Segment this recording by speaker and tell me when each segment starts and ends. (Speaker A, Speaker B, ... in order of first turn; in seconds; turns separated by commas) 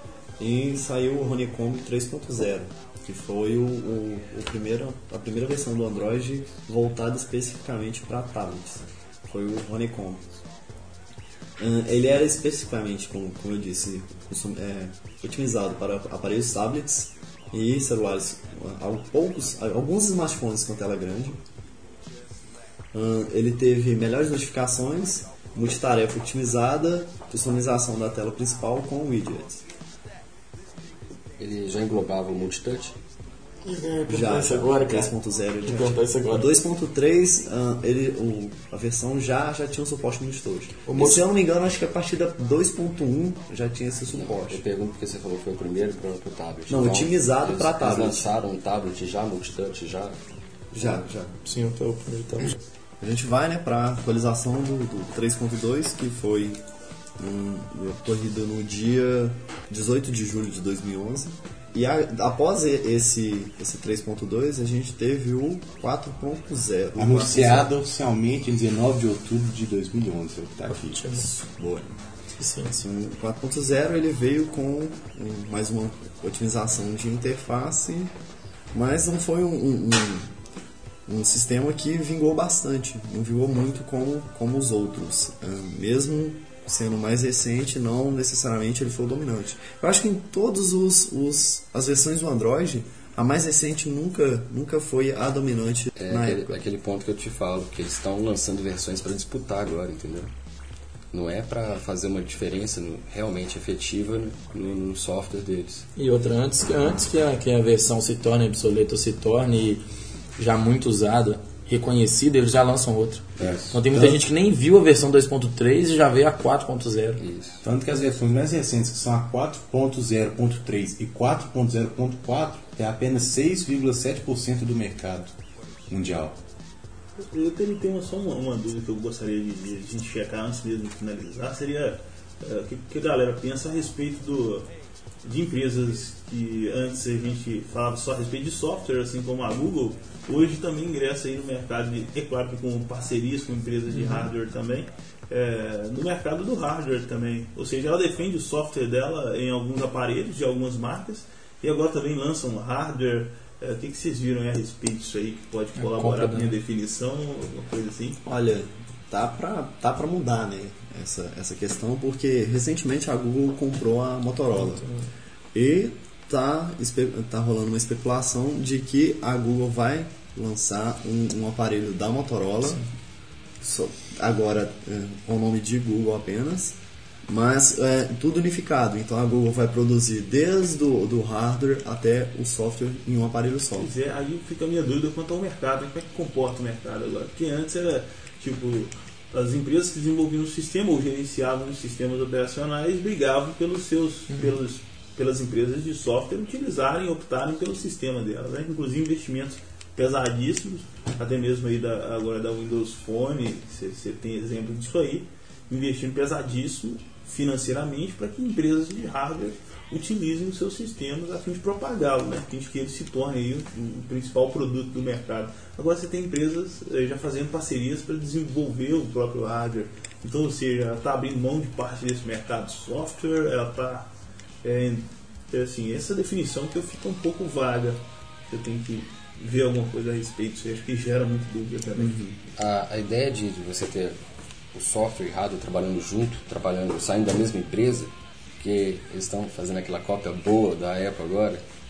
Speaker A: 0.4-10.2, Speaker A: 11.6-21.4, Speaker A: 22.9-29.6, Speaker B: 31.4-33.0, Speaker C: 33.6-35.1, Speaker A: 34.1-44.6, Speaker C: 35.6-36.5, Speaker B: 44.1-50.2, Speaker A: 46.7-48.3, Speaker B: 50.7-51.1, Speaker A: 50.7-51.4, Speaker C: 51.5-52.5, Speaker A: 53.0-56.6, Speaker A: 57.2-67.7, Speaker D: 66.9-71.0, Speaker C: 70.7-71.3, Speaker A: 71.3-72.0, Speaker C: 72.4-72.8, Speaker A: 72.8-78.1, Speaker A: 78.7-80.3, Speaker A: 81.1-96.6, Speaker B: 96.0-100.3, Speaker B: 101.1-105.9, Speaker C: 106.0-109.8, Speaker C: 110.4-117.2, Speaker B: 113.4-113.8, Speaker D: 113.4-114.1, Speaker B: 117.2-117.6, Speaker D: 117.6-125.3, Speaker D: 125.9-126.4, Speaker E: 127.3-134.7, Speaker E: 135.2-158.3, Speaker C: 155.8-156.6, Speaker A: 158.2-164.8, Speaker C: 164.6-165.0, Speaker A: 165.5-172.8, Speaker A: 173.6-176.8, Speaker A: 177.3-183.9, Speaker E: 183.8-224.1, Speaker E: 224.6-232.2, Speaker A: 231.9-232.4, Speaker B: 232.6-234.2, Speaker B: 234.7-241.6